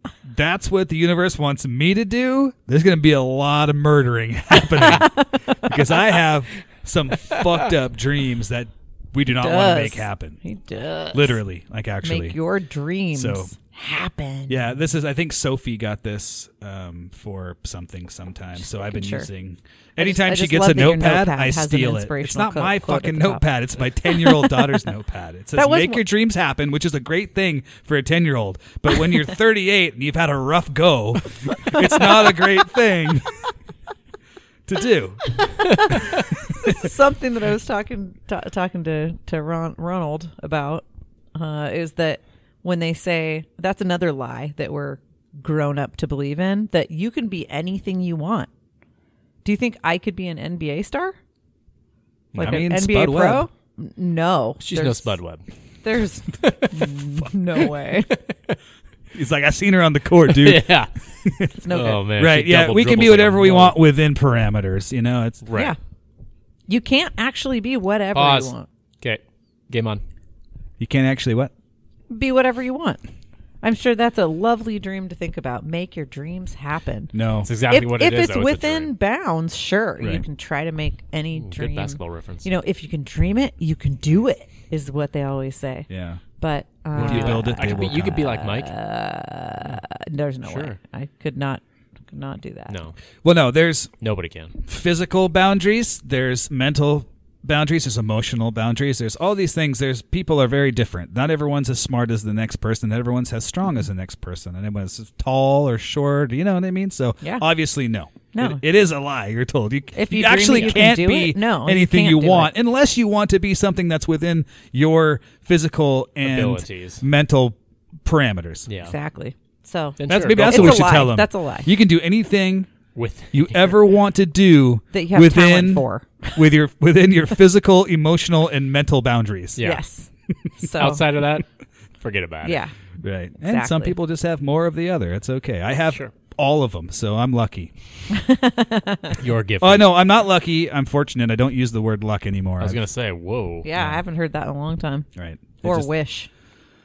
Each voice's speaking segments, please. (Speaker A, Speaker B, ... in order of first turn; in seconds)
Speaker A: 0.2-10.4, 11.1-12.4, 13.1-13.5, 14.5-33.5, 34.6-35.4, 52.4-53.5, 59.1-61.5, 62.1-65.4, 70.8-71.5, 77.1-77.5, 85.9-86.2, 87.0-88.4, 93.2-93.9, 94.6-118.7, 120.1-122.7, 123.3-129.6, 133.0-137.7, 139.6-142.8, 143.7-144.0, 145.2-145.9
Speaker B: 5.0-5.7, 9.4-11.4, 12.0-14.6, 18.6-19.3, 20.0-23.5, 24.1-24.8, 25.6-26.0, 35.4-36.1, 36.6-48.5, 49.4-51.2, 52.4-55.1, 55.8-58.2, 61.5-62.0, 66.7-68.7, 72.1-73.0, 73.6-77.1, 77.7-92.7, 108.3-108.6, 109.9-112.5, 118.8-121.7, 124.9-126.4, 129.6-131.0, 132.4-132.7, 133.4-133.9, 138.1-139.2, 143.6-145.1, 145.6-146.3
Speaker C: 52.3-52.6, 54.6-55.4, 56.4-56.8, 58.1-58.6, 60.3-60.9, 61.7-63.8, 65.4-65.7, 68.1-70.0, 77.4-78.9, 81.3-82.5, 86.9-88.7, 90.4-90.8, 92.7-93.0, 94.0-94.6, 110.5-110.8, 116.2-117.0, 118.7-118.9, 120.0-121.0, 122.9-123.8, 129.6-129.8, 130.8-131.4, 132.0-132.6, 139.2-140.0, 142.6-143.7